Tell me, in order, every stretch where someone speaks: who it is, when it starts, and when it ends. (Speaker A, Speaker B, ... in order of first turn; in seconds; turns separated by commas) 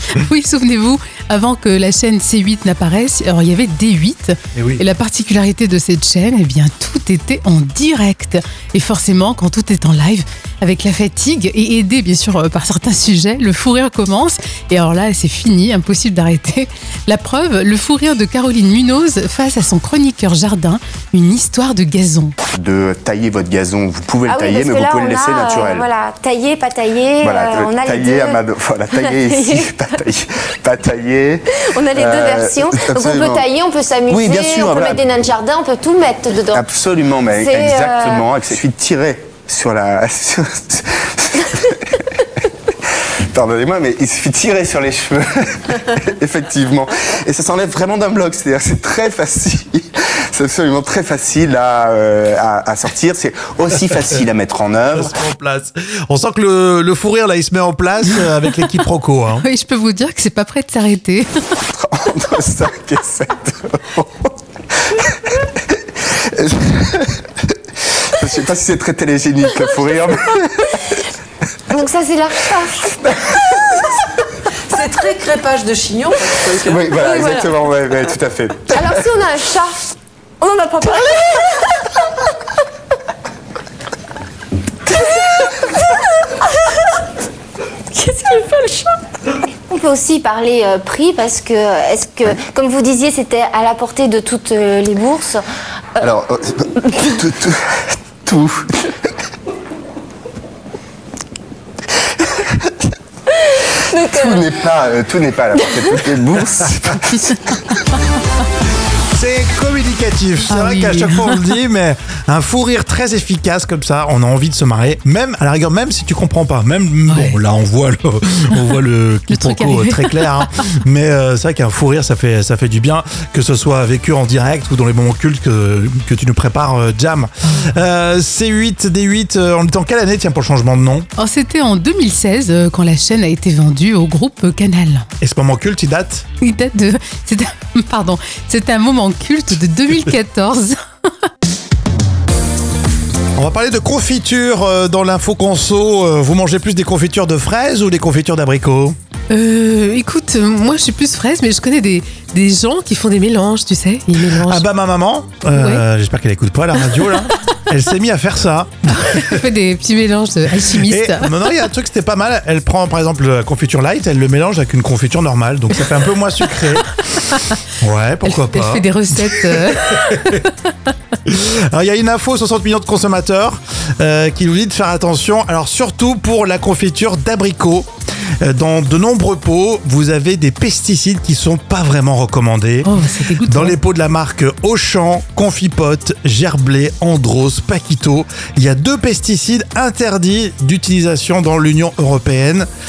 Speaker A: 0.1-22.3, Speaker B: 4.5-4.8, Speaker C: 22.5-25.9, Speaker D: 24.3-29.8, Speaker C: 27.2-33.5, Speaker D: 31.7-36.6, Speaker C: 34.1-35.2, Speaker C: 36.5-55.1, Speaker D: 37.3-38.3, Speaker B: 54.9-59.4, Speaker A: 59.4-61.6, Speaker C: 61.7-64.3, Speaker C: 64.9-70.9, Speaker D: 71.7-72.9, Speaker C: 73.0-73.9, Speaker E: 74.7-77.3, Speaker C: 76.5-79.1, Speaker D: 77.1-77.5, Speaker D: 78.7-79.8, Speaker D: 80.4-81.7, Speaker D: 85.1-85.5, Speaker D: 87.9-88.9, Speaker D: 89.7-95.4, Speaker C: 96.0-98.7, Speaker D: 103.5-104.5, Speaker C: 104.0-107.5, Speaker B: 109.1-131.1, Speaker A: 110.5-111.4, Speaker A: 117.1-117.4, Speaker A: 119.3-120.5, Speaker A: 127.5-127.7, Speaker A: 131.2-135.1, Speaker B: 135.2-136.3, Speaker A: 136.4-140.8, Speaker B: 143.4-148.9, Speaker A: 149.3-154.6, Speaker B: 154.4-159.4, Speaker A: 155.5-155.8, Speaker A: 158.9-161.4, Speaker B: 160.6-166.9, Speaker B: 167.8-170.4, Speaker A: 168.2-170.5, Speaker B: 171.2-177.9, Speaker B: 178.4-182.9, Speaker A: 182.8-183.8, Speaker B: 183.4-192.7